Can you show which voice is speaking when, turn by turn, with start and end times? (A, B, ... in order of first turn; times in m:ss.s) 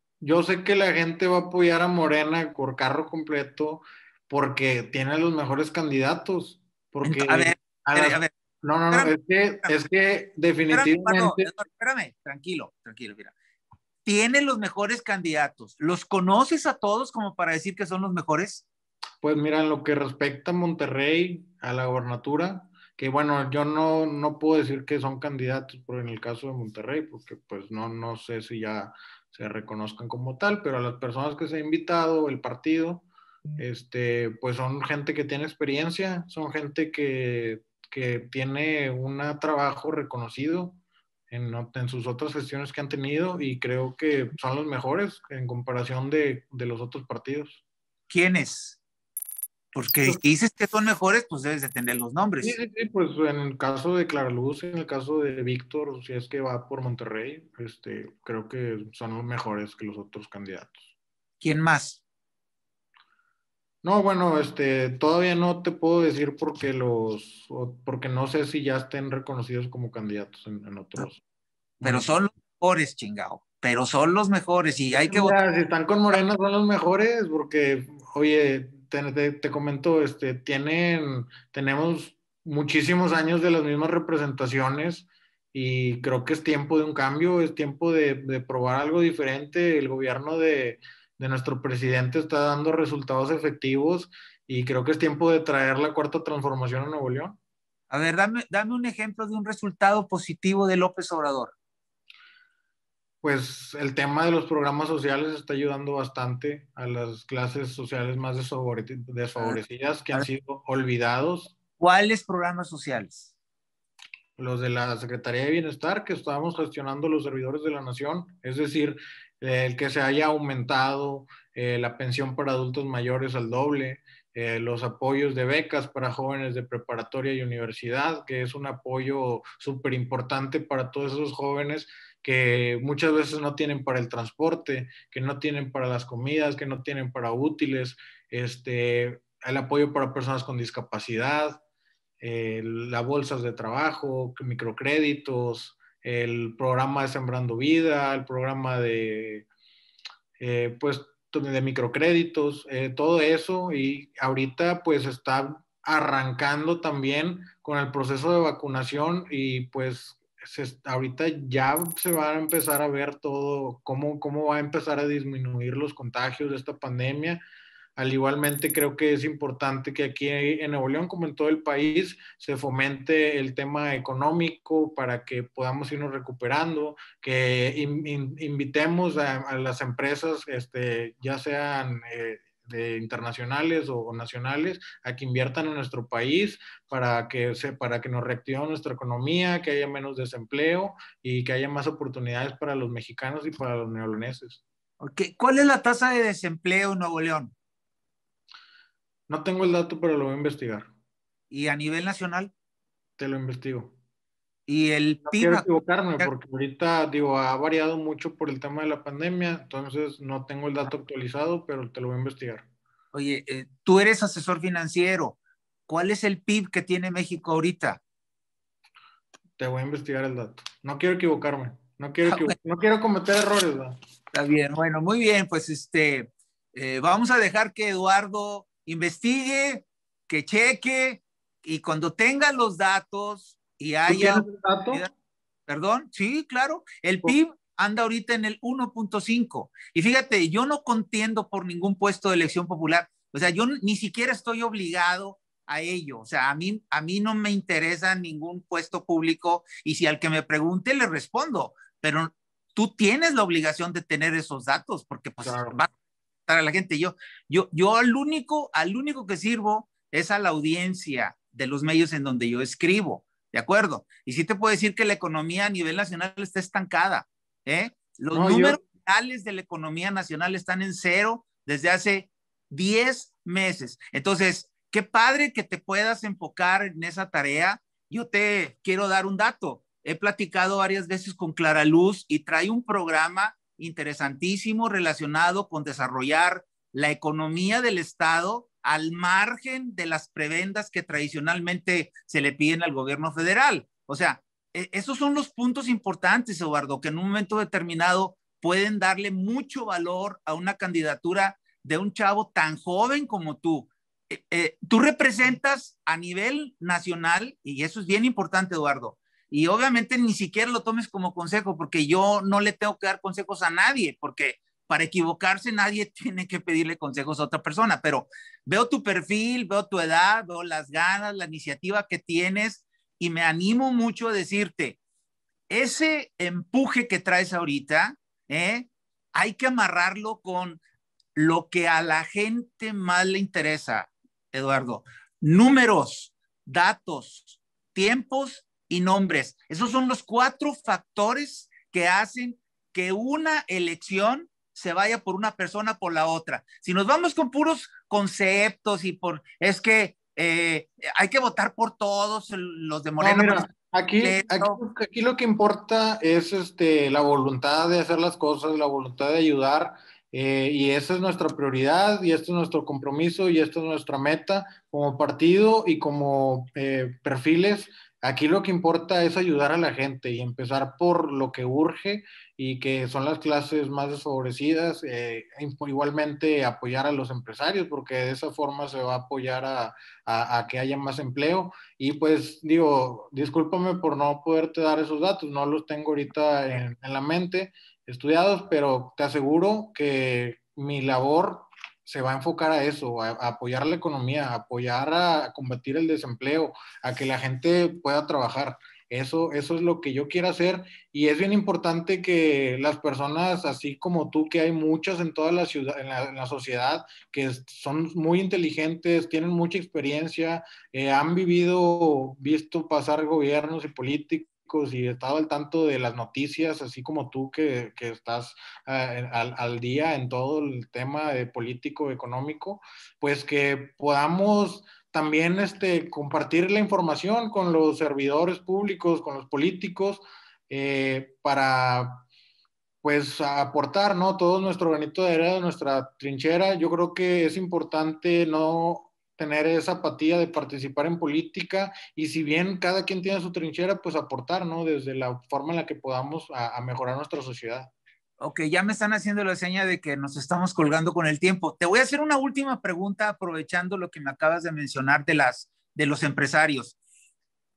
0:00.2-0:11.5 A
0:07.0-0:08.3 B
0:08.9-0:09.7 B
0:10.7-0:13.3 B
0:14.0-0:18.6 B
0:19.2-0:33.0 A
0:33.6-0:40.8 A
0:41.3-0:47.6 A
0:48.1-0:48.8 B
0:49.7-0:52.5 B
0:52.4-1:00.8 A
1:01.4-1:02.0 B
1:03.8-1:11.2 A
1:11.8-1:12.1 A
1:11.8-1:15.4 B
1:14.9-1:37.4 A
1:37.9-1:41.5 B
1:43.2-1:51.5 A
1:51.8-1:53.3 B
1:54.4-2:21.6 A
2:22.2-2:29.4 A
2:30.4-2:47.4 A
2:48.0-3:14.6 A
3:15.0-3:17.5 B
3:19.3-3:20.9 A
3:21.5-3:22.5 B
3:23.2-3:23.9 A
3:24.7-3:25.7 B
3:25.2-3:32.6 A
3:33.1-3:38.0 B
3:39.6-3:43.9 A
3:42.2-3:42.6 B
3:44.3-3:55.1 B
3:54.1-3:55.0 A
3:55.7-4:15.9 B
4:15.4-4:15.8 A
4:16.5-5:25.0 B
4:28.3-4:28.8 A
5:25.7-5:30.8 B
5:31.3-5:53.7 B
5:53.2-7:12.2 A
5:54.2-5:54.8 B
7:13.0-7:27.9 A
7:28.4-7:37.0 B